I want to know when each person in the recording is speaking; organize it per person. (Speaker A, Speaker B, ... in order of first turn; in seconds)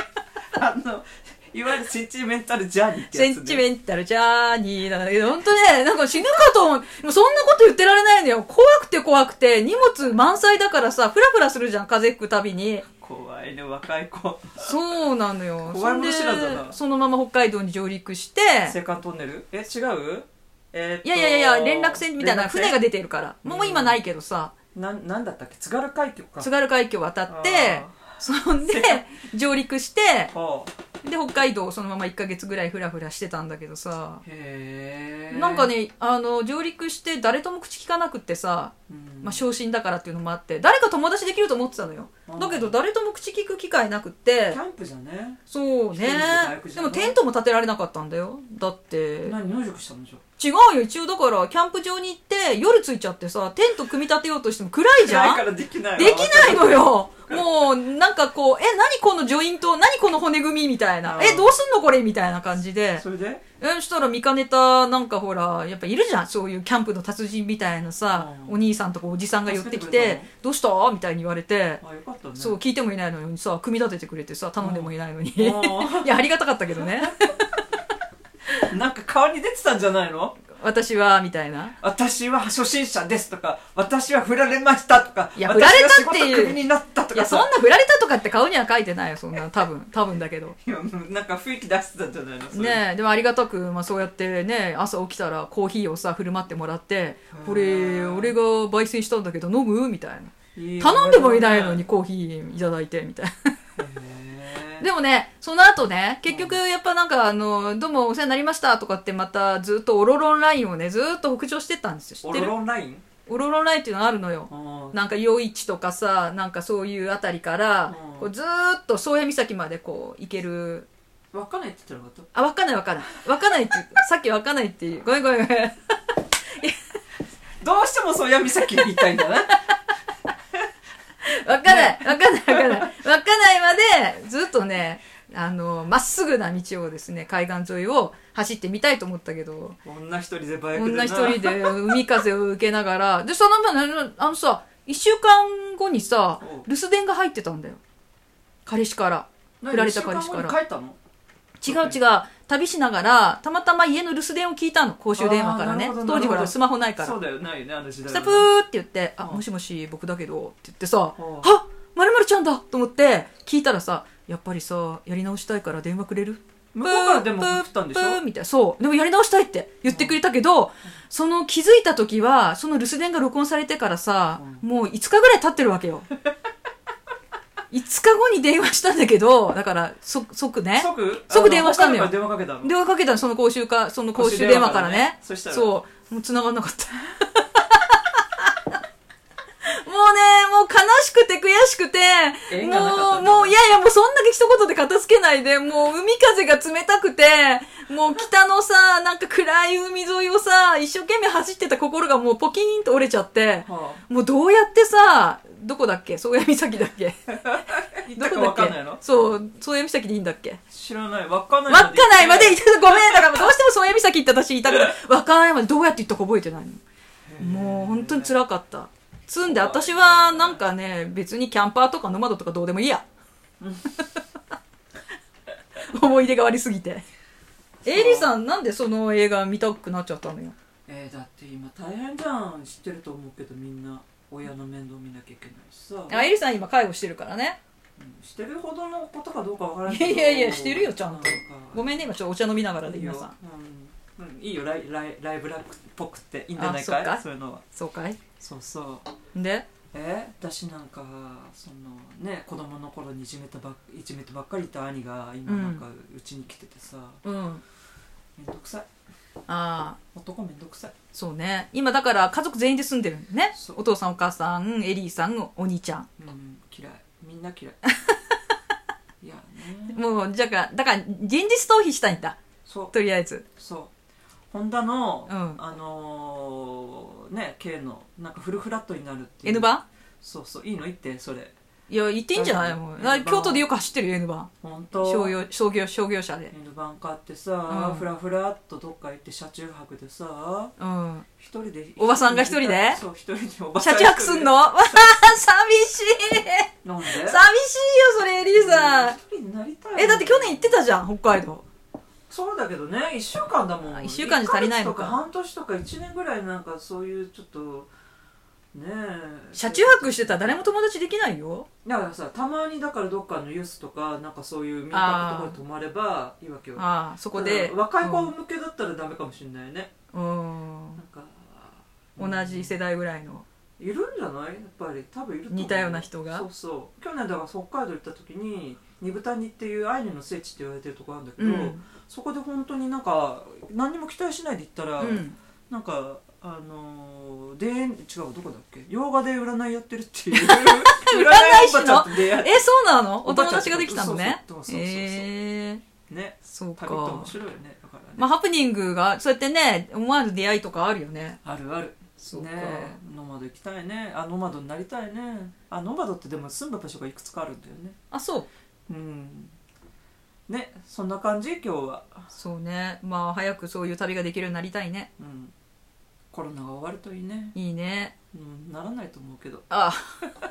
Speaker A: 0.5-3.6, 13.0-14.8, 15.6-16.8, 18.7-22.8, 23.4-24.0, 24.7-26.5, 27.3-29.0, 30.3-30.7, 34.2-35.7, 38.9-39.4, 42.3-42.8, 44.5-45.4, 45.9-47.2, 49.2-50.2, 55.0-57.4, 61.0-61.6, 63.0-63.4, 68.1-68.6, 69.5-70.3, 71.8-72.6, 74.6-76.1, 76.9-77.3, 78.6-80.4, 81.8-87.5, 90.6-92.8, 97.3-98.3, 100.6-101.8, 103.8-104.9, 106.3-106.6, 112.2-113.0, 114.5-115.0, 117.9-118.3, 121.3-122.3, 127.6-129.6, 131.7-132.9, 139.8-142.0, 146.4-146.7, 149.6-151.0, 151.7-152.0, 155.2-158.5, 161.2-161.5, 166.7-168.2, 169.9-170.2, 174.4-174.6, 180.8-182.7, 184.2-185.8, 192.5-193.6, 203.7-204.0, 207.7-209.0, 210.7-213.5, 217.3-218.3, 219.4-220.6, 223.6-223.9, 227.8-228.4, 230.9-236.3, 238.0-241.9, 242.8-247.6, 248.4-249.1, 249.9-257.2, 258.4-258.9, 260.1-260.9, 263.5-263.8, 266.2-267.8, 269.2-270.0, 272.6-272.9, 273.6-273.9, 274.5-279.7, 280.2-281.6, 282.3-283.7, 284.6-285.4, 286.5-290.7, 291.4-295.1, 296.8-297.4, 298.5-300.8, 302.3-307.9, 308.7-310.7, 311.8-319.9, 321.0-322.8, 323.8-342.6, 343.2-345.3, 346.1-348.3, 351.4-358.0, 358.9-359.5, 360.5-362.3, 365.2-365.5, 366.3-367.6, 368.3-369.7
Speaker B: 3.1-12.9, 14.6-18.8, 21.0-24.5, 26.4-30.3, 31.0-34.2, 35.3-44.6, 45.5-49.4, 50.4-63.0, 63.6-71.8, 72.4-77.4, 80.5-81.8, 85.4-86.6, 87.1-90.6, 92.5-103.5, 104.8-112.5, 113.3-120.9, 122.3-126.8, 131.2-139.8, 140.8-147.8, 148.7-150.5, 151.6-157.2, 158.1-176.1, 177.7-188.5, 189.7-210.6, 211.7-216.8, 217.4-223.0, 225.8-227.0, 227.8-230.6, 236.1-237.6, 239.9-243.3, 246.6-248.2, 249.3-249.7, 255.5-255.8, 257.2-257.6, 259.5-260.0, 261.1-266.1, 269.9-272.4, 272.9-273.4, 275.3-275.6, 279.4-279.9, 281.9-286.5, 287.7-288.1, 290.8-291.3, 292.0-293.0, 293.8-299.2, 300.0-301.7, 303.9-305.2, 309.6-311.7, 314.9-315.6, 316.8-318.3, 320.1-321.0, 322.2-323.4, 325.5-326.5, 331.4-331.8, 335.0-335.4, 340.3-345.8, 346.5-347.4, 348.2-351.4, 352.2-353.0, 358.1-358.5, 362.3-365.1, 367.6-368.1, 369.7-370.2